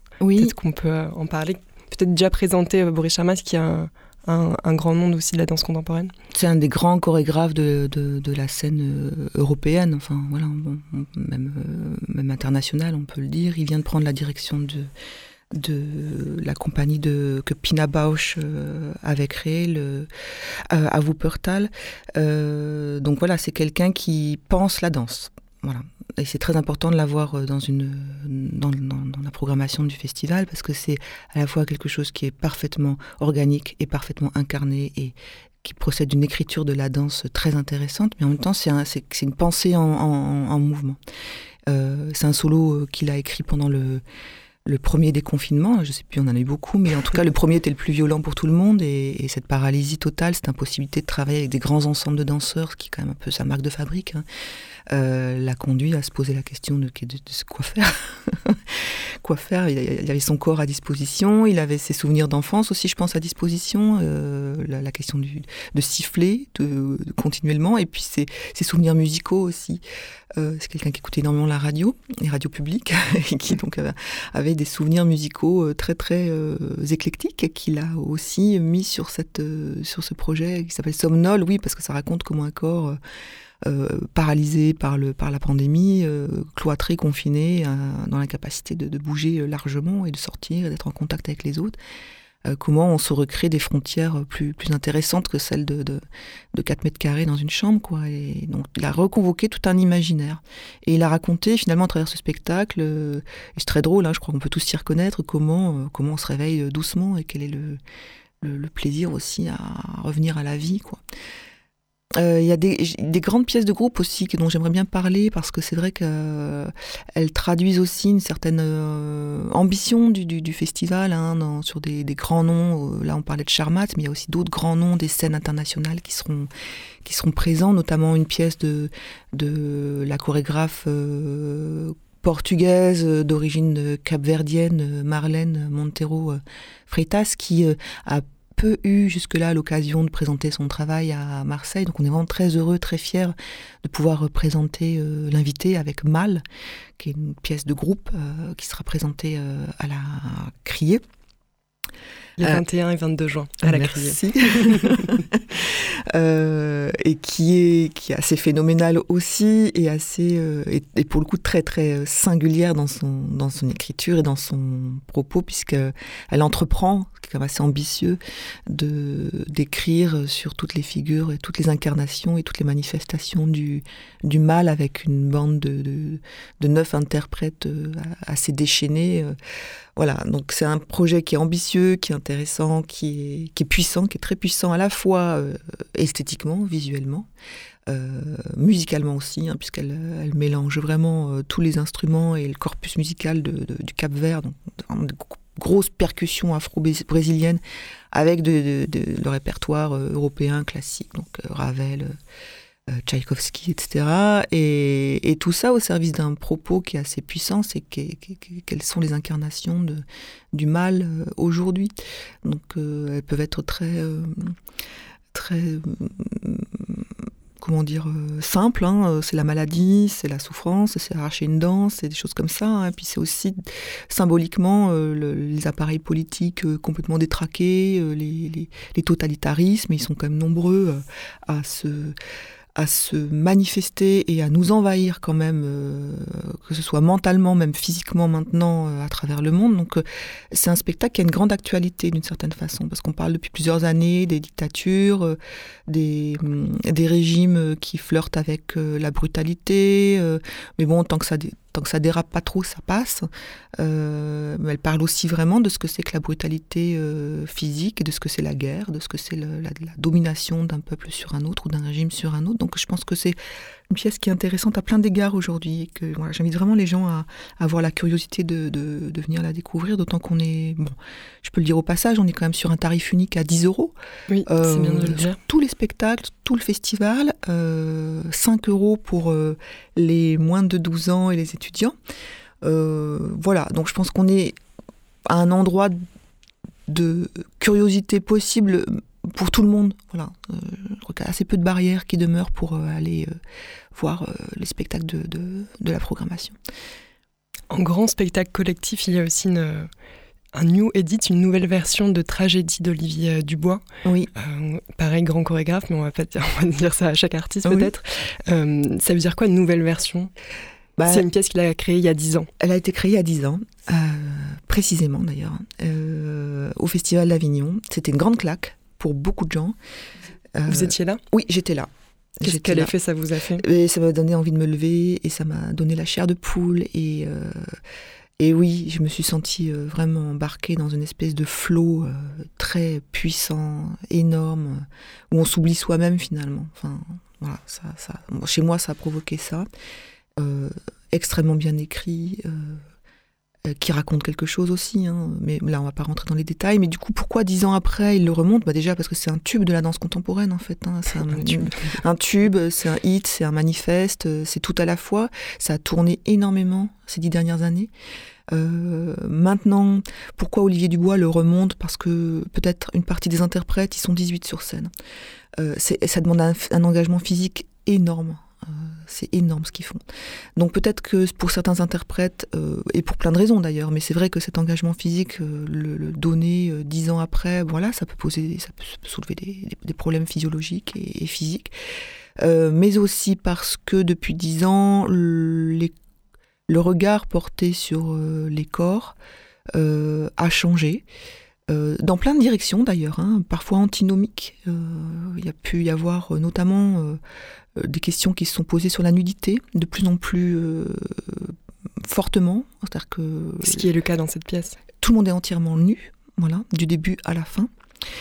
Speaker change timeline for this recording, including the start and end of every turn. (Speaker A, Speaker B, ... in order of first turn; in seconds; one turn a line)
Speaker A: 0.2-0.5
Speaker B: 0.4-6.1
Speaker A: 6.3-14.9
Speaker A: 15.5-20.1
Speaker A: 20.7-41.0
Speaker A: 41.7-44.0
Speaker A: 44.6-54.2
Speaker A: 54.9-69.8
Speaker A: 70.3-83.0
Speaker A: 83.6-91.8
Speaker A: 92.4-96.0
Speaker A: 96.5-107.8
Speaker A: 108.4-111.0
Speaker A: 112.1-126.5
Speaker A: 127.0-146.4
Speaker A: 147.0-151.0
Speaker B: 152.4-155.2
Speaker A: 153.6-179.3
Speaker A: 179.9-187.3
Speaker A: 187.9-197.6
Speaker A: 198.1-202.2
Speaker A: 202.9-214.5
Speaker A: 215.3-217.1
Speaker A: 217.6-232.1
Speaker A: 232.8-253.3
Speaker A: 253.8-263.4
Speaker A: 263.9-273.9
Speaker B: 274.3-275.4
Speaker A: 274.4-281.9
Speaker A: 282.6-284.6
Speaker A: 285.2-286.0
Speaker A: 286.9-293.4
Speaker A: 293.9-296.6
Speaker B: 297.7-299.9
Speaker B: 300.5-303.8
Speaker A: 304.0-304.3
Speaker B: 304.3-310.3
Speaker A: 307.6-307.9
Speaker A: 311.0-311.3
Speaker B: 311.1-312.5
Speaker A: 312.6-319.8
Speaker A: 320.5-322.9
Speaker B: 320.7-321.2
Speaker B: 322.4-323.6
Speaker A: 323.6-327.8
Speaker A: 328.4-339.7
Speaker A: 340.4-342.8
Speaker A: 343.6-357.9
Speaker B: 351.4-351.9
Speaker A: 358.5-364.9
Speaker A: 365.6-370.0
Speaker A: 370.6-381.7
Speaker A: 382.4-385.9
Speaker A: 386.7-389.1
Speaker A: 389.7-391.0
Speaker A: 391.7-397.2
Speaker A: 397.8-403.9
Speaker B: 403.6-404.8
Speaker A: 405.0-407.7